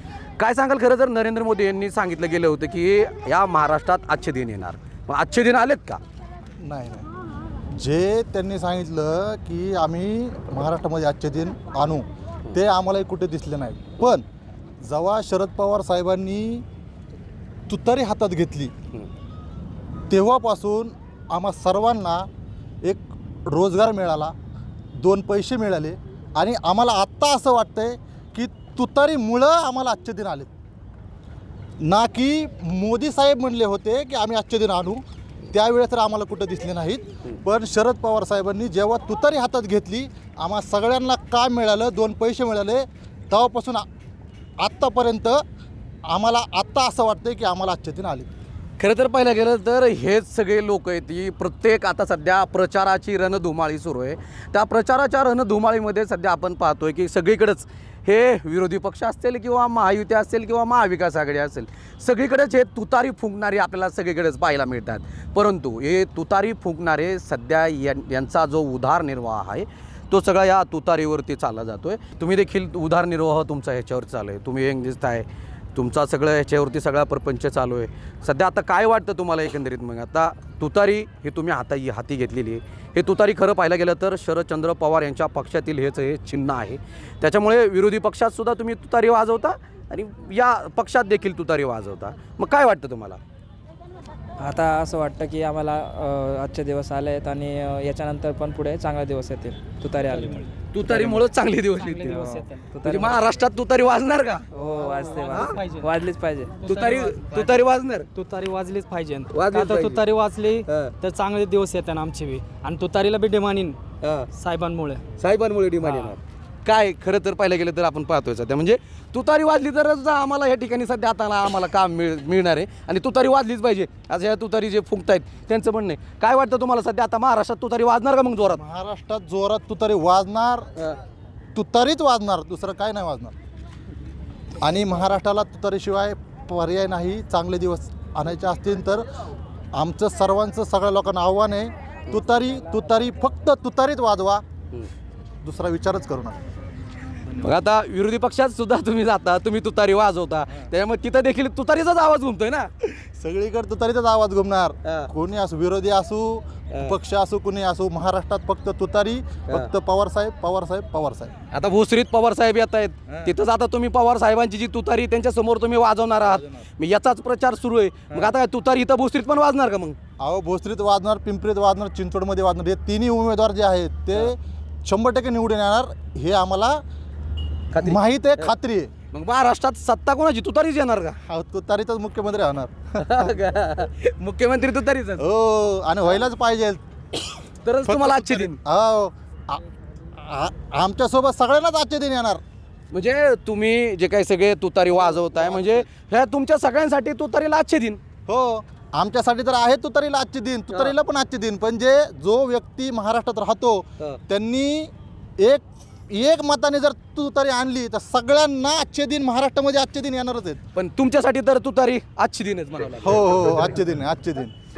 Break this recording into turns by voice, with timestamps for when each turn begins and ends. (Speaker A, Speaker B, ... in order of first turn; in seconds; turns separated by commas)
Speaker A: 0.4-6.0, Speaker B: 6.6-7.1, Speaker B: 7.7-14.2, Speaker B: 14.8-16.6, Speaker B: 17.7-18.7, Speaker B: 20.1-22.3, Speaker B: 22.8-24.3, Speaker B: 25.0-30.5, Speaker B: 31.8-35.0, Speaker B: 35.5-43.9, Speaker B: 44.6-45.4, Speaker B: 46.1-48.3, Speaker A: 48.8-93.2, Speaker C: 94.4-100.3, Speaker D: 100.1-101.1, Speaker A: 100.7-102.2, Speaker C: 100.9-101.2, Speaker D: 101.8-102.7, Speaker C: 102.0-103.2, Speaker A: 102.8-104.5, Speaker C: 104.5-106.6, Speaker D: 104.7-105.9, Speaker A: 105.3-105.6, Speaker D: 106.6-107.5, Speaker A: 106.7-108.1, Speaker D: 108.2-113.8, Speaker A: 109.3-110.0, Speaker A: 110.7-111.0, Speaker A: 114.0-114.3, Speaker D: 114.3-115.0, Speaker A: 115.2-128.6, Speaker D: 115.8-116.2, Speaker B: 128.5-130.7, Speaker B: 131.6-133.3, Speaker B: 134.6-139.1, Speaker B: 139.7-144.4, Speaker B: 145.4-146.4, Speaker A: 147.3-153.1, Speaker B: 153.2-161.3, Speaker A: 154.8-155.1, Speaker A: 156.7-157.0, Speaker A: 161.5-170.0, Speaker B: 170.2-176.8, Speaker A: 177.7-178.5, Speaker B: 177.8-178.9, Speaker A: 179.1-181.2, Speaker B: 181.3-183.3, Speaker A: 183.0-185.3, Speaker B: 185.2-186.8, Speaker A: 187.6-188.6, Speaker B: 187.8-189.6, Speaker B: 190.2-192.4, Speaker A: 192.9-198.0, Speaker B: 198.3-210.6, Speaker A: 200.7-201.0, Speaker A: 210.7-213.4, Speaker B: 213.0-214.5